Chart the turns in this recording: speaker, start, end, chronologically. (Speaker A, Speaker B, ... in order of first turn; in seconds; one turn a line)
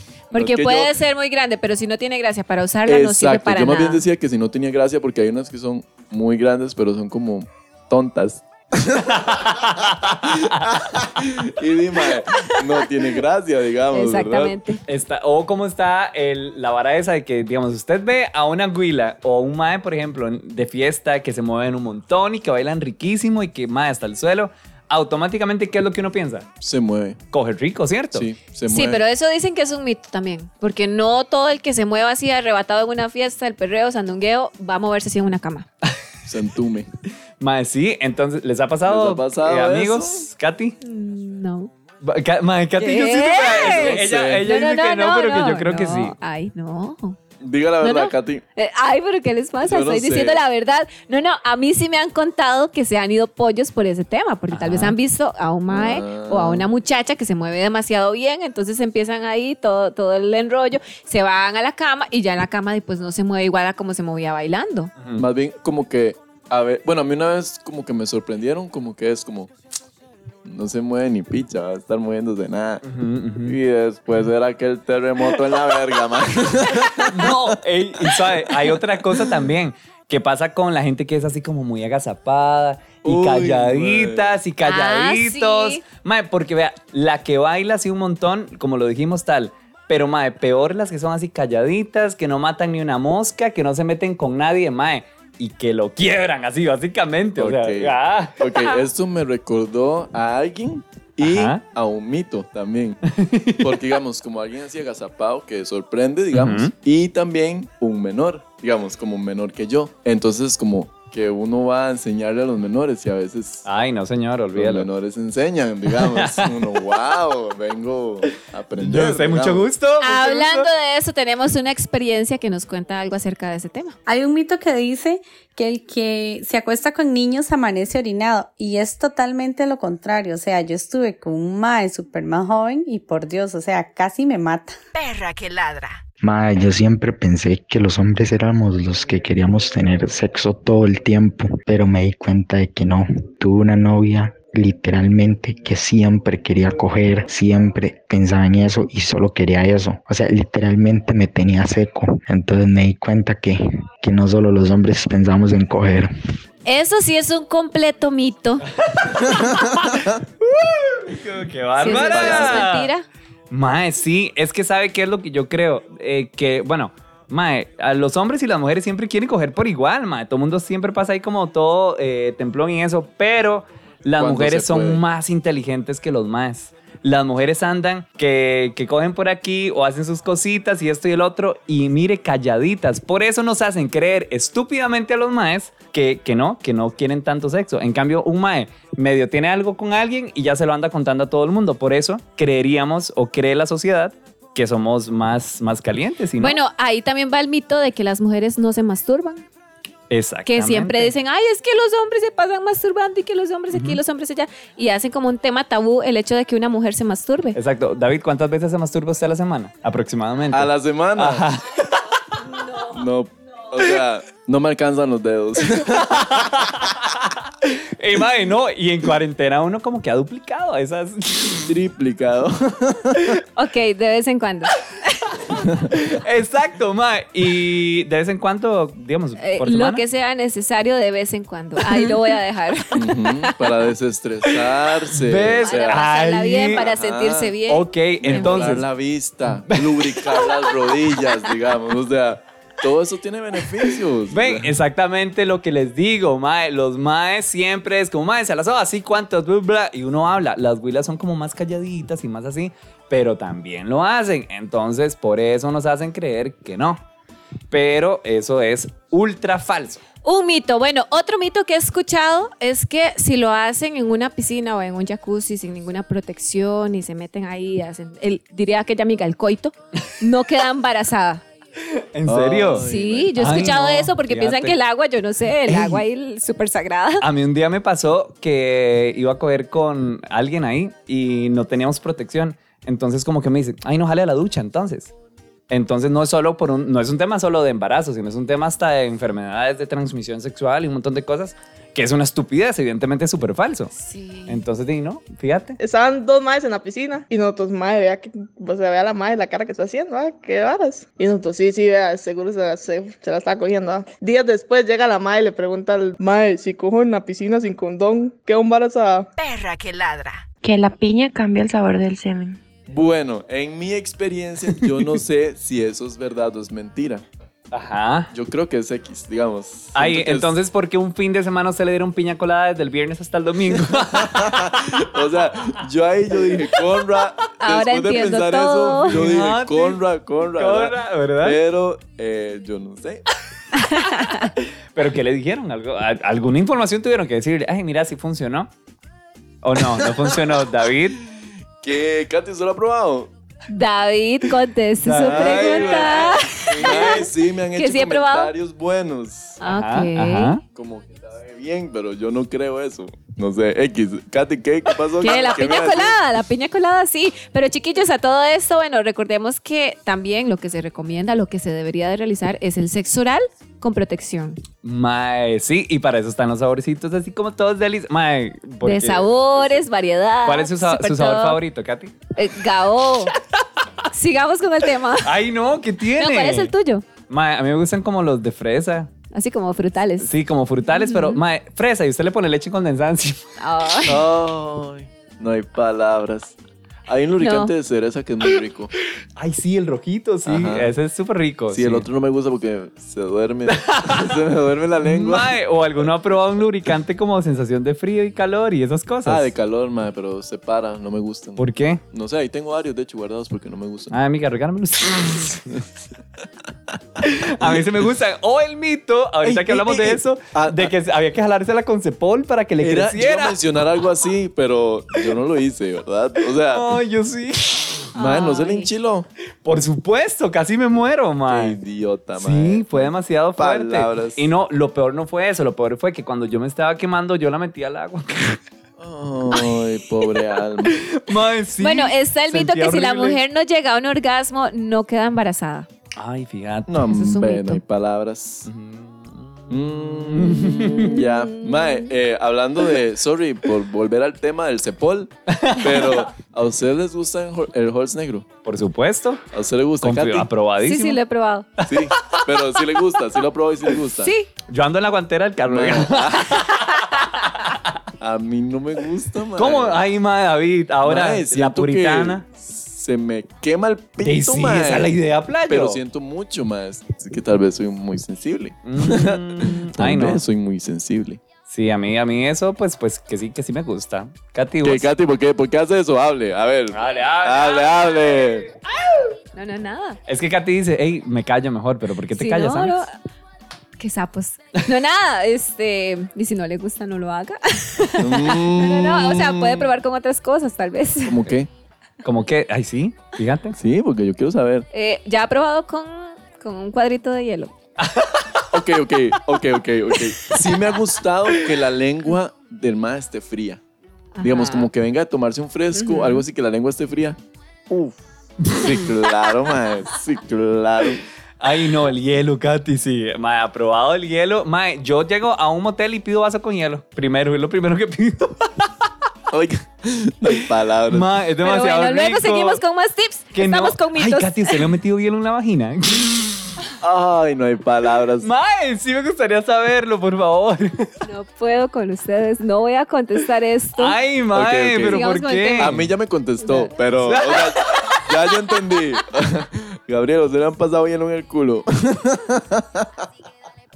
Speaker A: 0.3-0.9
Speaker B: 0.3-4.0
Speaker A: 2.9-9.6
Speaker C: 9.5-9.9
Speaker A: 10.2-14.6
Speaker B: 13.9-14.8
Speaker C: 14.9-26.5
Speaker A: 26.6-27.2
Speaker C: 27.3-28.3
Speaker A: 28.1-29.0
Speaker B: 28.7-35.7
Speaker A: 36.3-36.9
Speaker C: 37.4-40.8
Speaker A: 38.9-40.3
Speaker B: 40.8-41.7
Speaker C: 42.0-46.1
Speaker B: 42.8-47.2
Speaker A: 43.4-44.5
Speaker A: 47.4-48.4
Speaker B: 47.8-64.9
Speaker A: 49.6-50.4
Speaker C: 54.5-55.0
Speaker A: 55.7-56.7
Speaker C: 65.0-65.3
Speaker A: 65.2-69.5
Speaker A: 70.5-72.8
Speaker C: 72.8-73.6
Speaker A: 73.5-77.4
Speaker C: 76.7-98.4
Speaker A: 78.0-79.5
Speaker A: 83.0-84.4
Speaker B: 84.6-85.8
Speaker A: 97.4-103.0
Speaker C: 101.2-101.6
Speaker C: 103.1-103.8
Speaker A: 103.6-113.7
Speaker C: 106.3-106.7
Speaker C: 113.7-114.9
Speaker A: 114.5-119.7
Speaker C: 115.9-116.6
Speaker C: 118.8-120.7
Speaker B: 120.0-124.0
Speaker D: 124.2-133.8
Speaker E: 134.9-136.0
Speaker F: 136.2-156.1
Speaker B: 156.7-158.7
Speaker C: 158.8-162.9
Speaker B: 161.8-163.1
Speaker A: 161.8-162.6
Speaker C: 163.5-196.6
Speaker A: 174.2-175.0
Speaker B: 196.4-199.4
Speaker C: 200.1-201.1
Speaker B: 200.5-207.6
Speaker C: 203.7-204.0
Speaker C: 207.5-212.0
Speaker A: 210.5-211.4
Speaker A: 212.9-216.4
Speaker C: 216.0-216.8
Speaker C: 217.6-221.7
Speaker A: 221.7-223.4
Speaker B: 223.6-224.7
Speaker A: 225.6-225.9
Speaker C: 225.9-230.0
Speaker B: 229.4-233.6
Speaker A: 232.9-236.0
Speaker C: 235.1-236.9
Speaker B: 235.6-238.7
Speaker A: 236.7-237.6
Speaker C: 237.7-238.9
Speaker A: 238.2-244.7
Speaker C: 239.7-240.2
Speaker C: 244.3-257.0
Speaker C: 257.7-260.0
Speaker B: 260.2-271.4
Speaker C: 272.1-274.8
Speaker A: 272.3-273.8
Speaker B: 272.8-277.2
Speaker C: 277.2-285.1
Speaker C: 285.7-293.9
Speaker B: 293.9-294.6
Speaker C: 294.5-295.8
Speaker G: 295.8-309.3
Speaker E: 309.4-310.4
Speaker H: 310.6-312.6
Speaker A: 312.9-317.2
Speaker C: 317.7-318.3
Speaker A: 318.3-320.5
Speaker C: 319.9-325.0
Speaker A: 324.0-333.2
Speaker B: 327.6-329.2
Speaker C: 329.1-330.0
Speaker C: 330.5-331.6
Speaker B: 333.7-334.5
Speaker C: 334.9-338.7
Speaker C: 339.6-341.2
Speaker A: 340.0-340.4
Speaker A: 341.8-343.3
Speaker B: 343.7-348.5
Speaker C: 345.0-346.3
Speaker A: 345.2-349.6
Speaker C: 346.8-347.1
Speaker B: 349.6-350.5
Speaker C: 349.6-350.6
Speaker A: 350.7-356.2
Speaker B: 355.2-364.6
Speaker C: 364.8-369.8
Speaker B: 368.8-371.6
Speaker C: 370.4-372.1
Speaker B: 372.4-373.3
Speaker B: 374.1-375.3
Speaker C: 375.2-376.7
Speaker B: 376.2-377.1
Speaker C: 377.3-379.1
Speaker B: 379.3-380.3
Speaker C: 380.2-383.4
Speaker B: 380.9-381.4
Speaker B: 383.6-384.2
Speaker A: 384.1-386.6
Speaker A: 387.1-388.9
Speaker B: 387.4-387.7
Speaker C: 389.4-392.1
Speaker A: 390.5-390.9
Speaker A: 391.7-395.6
Speaker C: 393.7-394.4
Speaker C: 395.0-399.5
Speaker A: 399.3-404.1
Speaker C: 401.6-402.0
Speaker C: 404.1-405.6
Speaker C: 407.2-413.6
Speaker A: 409.4-410.9
Speaker A: 412.8-416.9
Speaker C: 416.7-418.1
Speaker B: 418.1-418.9
Speaker A: 418.2-419.3
Speaker C: 419.6-421.8
Speaker A: 421.5-424.5
Speaker C: 422.4-428.6
Speaker A: 429.0-431.0
Speaker C: 430.9-433.4
Speaker B: 431.8-435.9
Speaker C: 436.2-436.9
Speaker A: 436.9-438.7
Speaker B: 437.1-437.8
Speaker C: 438.7-441.2
Speaker A: 439.7-448.5
Speaker B: 441.5-442.1
Speaker C: 445.5-446.3
Speaker C: 448.6-449.4
Speaker A: 449.5-450.5
Speaker C: 450.0-451.2
Speaker B: 450.8-451.7
Speaker C: 451.8-452.8
Speaker A: 451.9-454.3
Speaker B: 454.2-454.5
Speaker C: 454.7-457.8
Speaker A: 455.7-456.7
Speaker A: 458.2-460.0
Speaker C: 459.6-462.4
Speaker A: 461.0-465.1
Speaker C: 464.2-466.0
Speaker A: 465.7-471.4
Speaker C: 468.9-470.4
Speaker C: 471.7-475.1
Speaker A: 474.8-478.7
Speaker C: 476.9-478.4
Speaker C: 478.9-479.3
Speaker B: 479.6-480.2
Speaker C: 480.3-483.0
Speaker B: 482.4-483.1
Speaker B: 484.0-491.4
Speaker A: 488.2-489.9
Speaker A: 491.2-491.7
Speaker C: 492.2-493.8
Speaker A: 493.8-494.9
Speaker B: 494.9-497.7
Speaker C: 498.0-498.6
Speaker A: 498.7-503.8
Speaker B: 504.4-504.9
Speaker A: 504.4-507.4
Speaker B: 505.9-506.4
Speaker C: 508.0-509.1
Speaker A: 508.7-511.2
Speaker C: 511.6-518.9
Speaker A: 519.5-521.3
Speaker C: 521.1-522.8
Speaker B: 521.6-524.8
Speaker C: 523.5-526.7
Speaker A: 527.0-528.5
Speaker C: 528.4-531.1
Speaker B: 531.2-534.2
Speaker C: 534.0-536.1
Speaker A: 534.5-535.2
Speaker B: 535.1-535.9
Speaker A: 535.8-543.1
Speaker B: 536.6-536.9
Speaker C: 537.2-537.7